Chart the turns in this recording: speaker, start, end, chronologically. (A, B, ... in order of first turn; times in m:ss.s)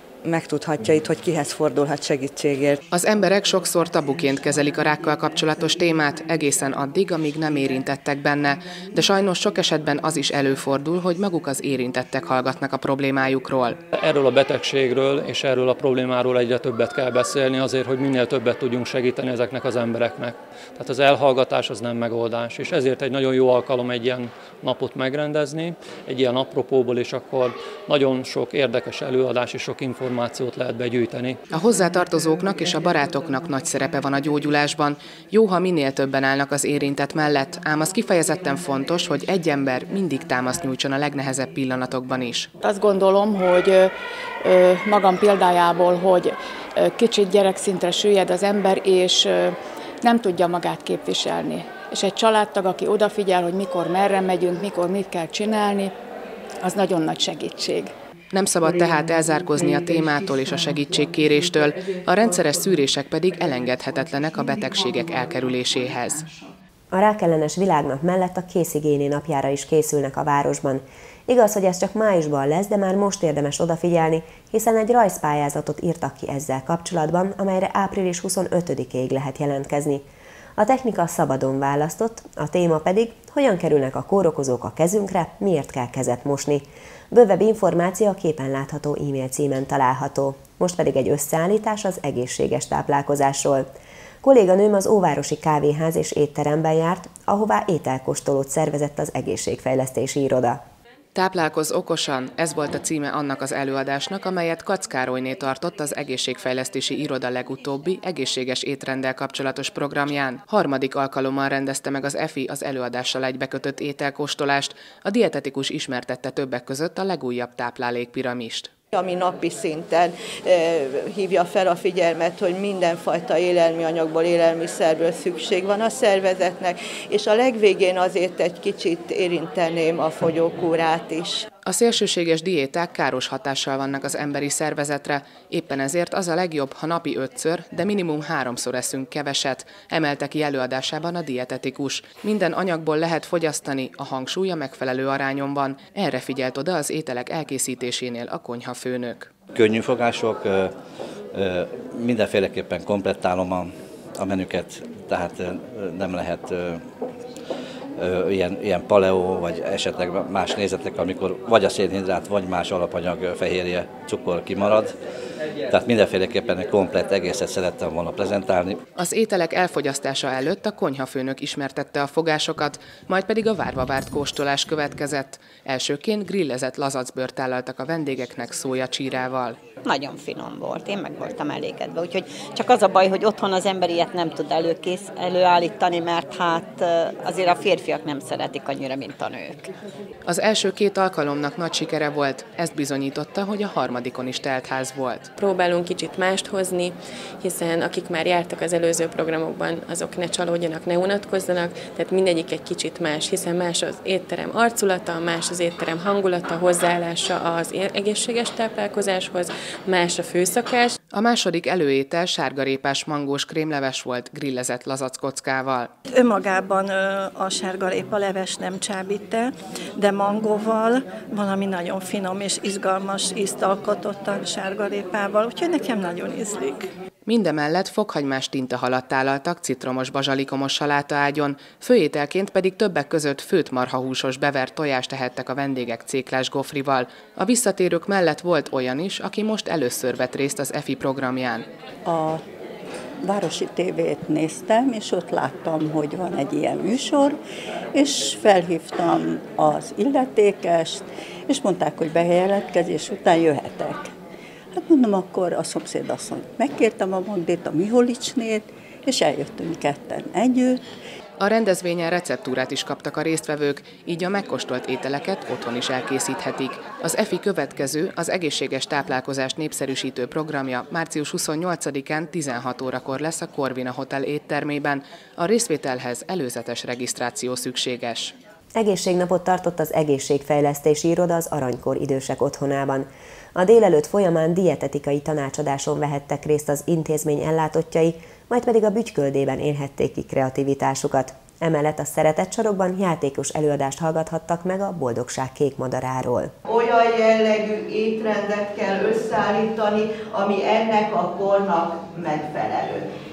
0:00.2-0:02.8 A
0:02.9-0:13.8 B
0:13.9-0:31.4 C
0:31.5-0:42.5 B
0:42.6-0:55.9 D
0:56.6-0:57.9 D
0:58.3-1:06.3 B
1:06.9-1:20.0 E
1:20.6-1:33.7 E
1:34.2-1:40.6 E
1:41.1-1:58.7 B
1:58.9-2:11.4 F
2:11.6-2:29.3 B
2:29.5-2:30.7 G
2:31.3-2:36.8 G
2:38.0-2:44.9 G
2:45.7-2:48.8 G
2:49.0-2:59.6 B
2:59.8-3:09.7 H
3:10.2-3:15.3 B
3:15.4-3:31.0 I
3:31.1-3:35.9 B
3:36.1-3:46.8 J
3:47.2-4:01.6 B
4:02.0-4:02.4 K
4:03.2-4:07.4 K
4:07.9-4:14.1 K
4:14.7-4:20.8 K
4:21.4-4:38.3 B
4:38.7-4:56.5 E
4:56.6-5:03.0 F